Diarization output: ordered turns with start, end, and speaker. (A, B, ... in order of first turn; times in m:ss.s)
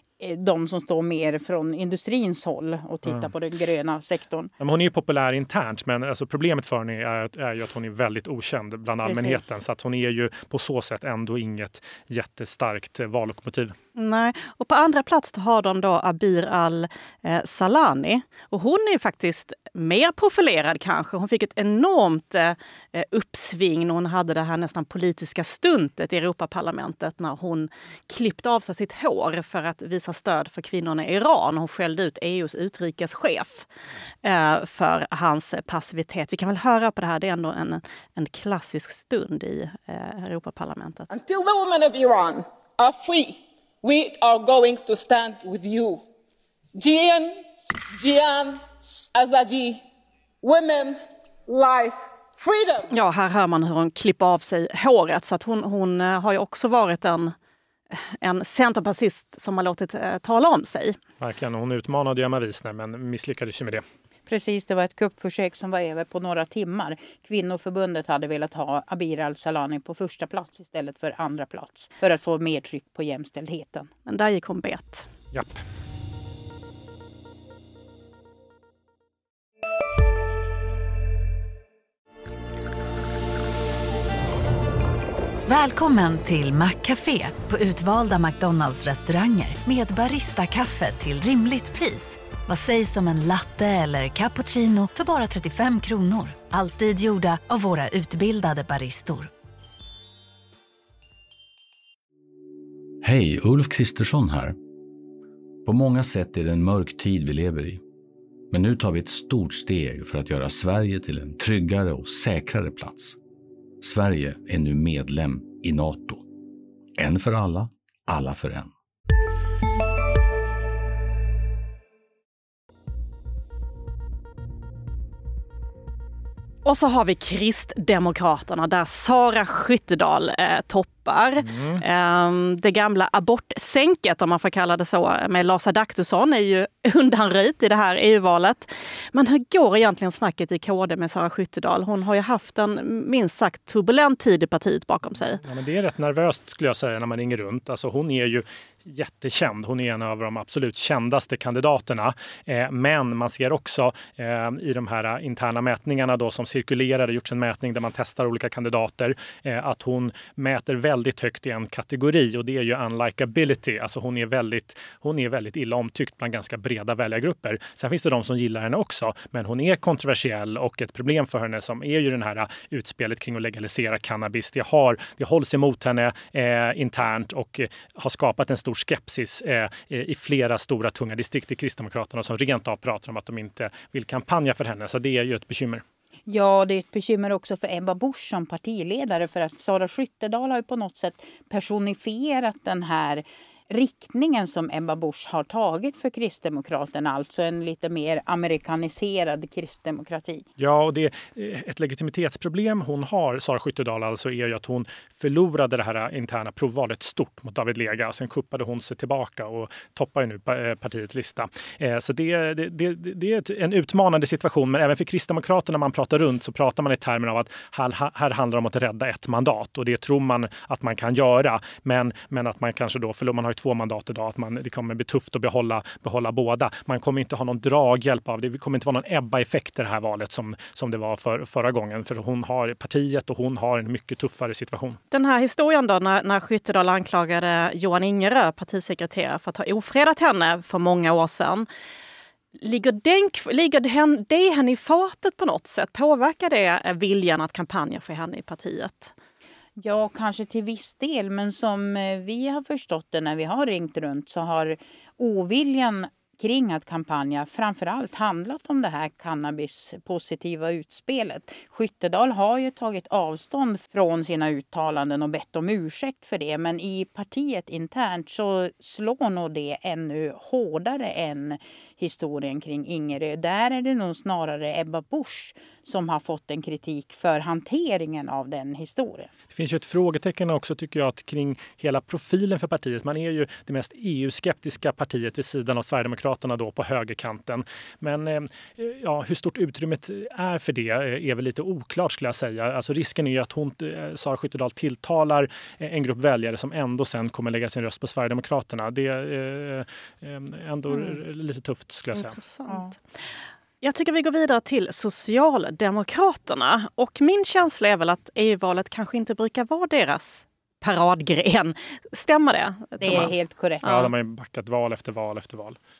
0:00.2-0:04.5 A
0:04.6-0:13.7 B
0:09.0-0:09.5 A
0:14.0-0:33.7 C
0:34.2-0:41.1 C
0:41.1-0:46.0 D
0:46.8-0:47.4 D
0:47.9-0:48.6 D
0:49.1-0:49.8 D
0:50.4-0:52.9 D
0:52.9-0:57.3 C
0:57.9-1:01.0 C
1:01.2-1:03.8 B
1:04.3-1:13.9 A
1:14.0-1:15.1 C
1:15.3-1:15.6 B
1:25.4-1:39.3 E
1:43.0-1:44.6 F
1:45.6-1:47.8 F
1:48.5-1:53.2 F
1:53.8-1:56.2 F
1:57.0-1:58.7 F
2:06.6-2:25.4 C
2:11.4-2:11.8 B
2:25.4-3:05.8 B
3:06.3-3:20.4 A
3:20.6-3:55.0 B
3:55.1-4:01.7 C
4:02.6-4:09.1 C
4:09.8-4:39.3 A
4:39.5-5:02.4 B
5:02.1-5:03.0 C
5:03.8-5:14.1 C
5:13.0-5:13.9 A
5:13.8-5:15.8 B